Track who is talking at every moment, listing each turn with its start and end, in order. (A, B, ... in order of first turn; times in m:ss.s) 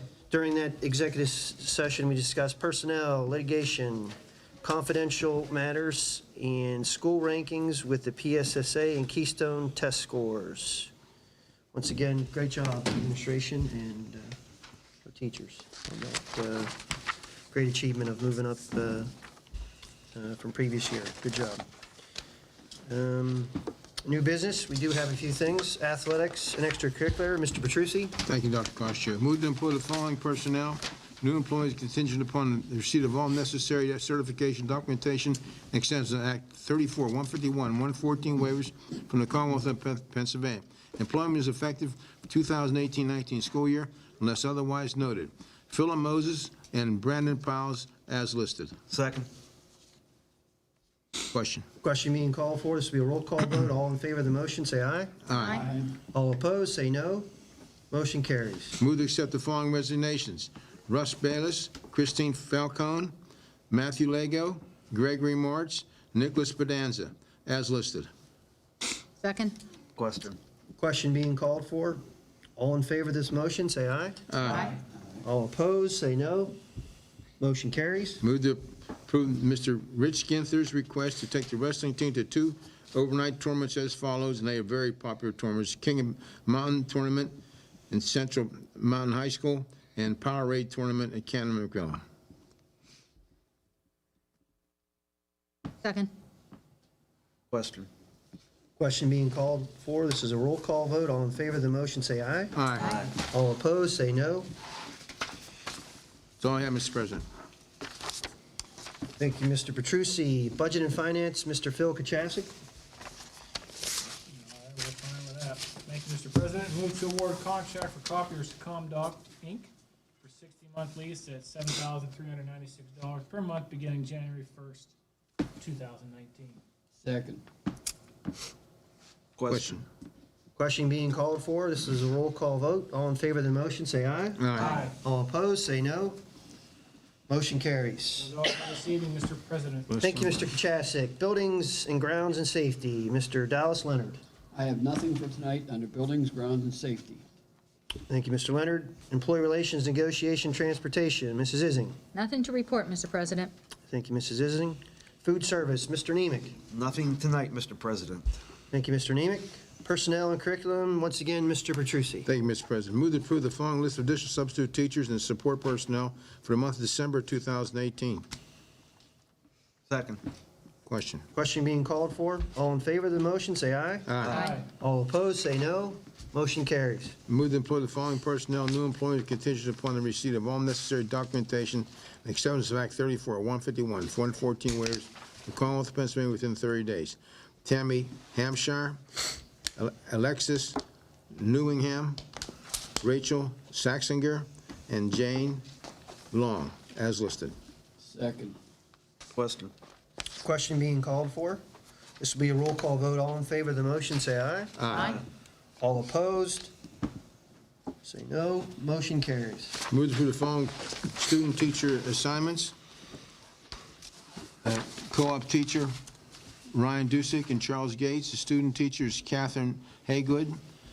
0:00.3-0:10.9 A
0:11.7-0:14.4 A
0:15.1-0:16.8 A
0:17.5-0:19.1 A
0:20.1-0:21.6 A
0:22.9-0:28.2 A
0:28.2-0:48.8 B
0:48.9-0:49.3 C
0:51.3-0:51.6 B
0:51.8-0:55.1 A
0:55.3-0:55.6 B
0:55.4-0:55.6 D
0:55.6-0:55.9 E
0:56.1-0:57.3 A
0:57.9-0:58.8 A
0:58.8-1:03.1 B
1:03.7-1:08.1 B
1:09.2-1:09.6 D
1:10.0-1:10.4 C
1:10.8-1:12.0 A
1:12.6-1:14.2 A
1:14.3-1:14.7 B
1:15.2-1:16.6 A
1:17.4-1:18.2 A
1:18.2-1:27.4 B
1:27.9-1:32.0 B
1:35.8-1:36.1 D
1:37.5-1:37.9 C
1:38.8-1:42.6 A
1:42.5-1:43.0 B
1:43.2-1:44.5 A
1:46.4-1:47.2 B
1:49.2-1:52.5 A
1:54.4-1:59.7 F
2:00.3-2:04.8 F
2:05.7-2:06.6 F
2:07.0-2:07.4 E
2:09.4-2:09.6 C
2:09.5-2:09.8 B
2:10.6-2:16.2 A
2:14.4-2:14.8 B
2:17.3-2:18.4 A
2:18.4-2:19.9 F
2:19.9-2:20.5 B
2:20.0-2:24.2 A
2:24.5-2:27.2 E
2:28.1-2:32.0 A
2:32.1-2:33.5 D
2:33.9-2:36.6 A
2:36.7-2:38.3 C
2:38.7-2:42.3 A
2:42.3-2:48.2 B
2:49.9-2:50.2 C
2:50.9-2:51.2 B
2:51.3-2:57.2 A
2:54.1-2:54.4 B
2:54.4-2:54.6 D
2:57.3-3:09.0 B
3:09.8-3:10.8 B
3:11.3-3:12.2 B
3:13.0-3:15.6 B
3:16.3-3:17.6 B
3:18.0-3:18.6 E
3:19.4-3:19.7 C
3:20.4-3:21.6 A
3:22.2-3:24.8 A
3:24.8-3:25.2 B
3:25.8-3:26.7 A
3:28.0-3:29.8 A
3:29.9-3:32.7 B
3:34.6-3:35.9 B
3:36.7-3:40.6 B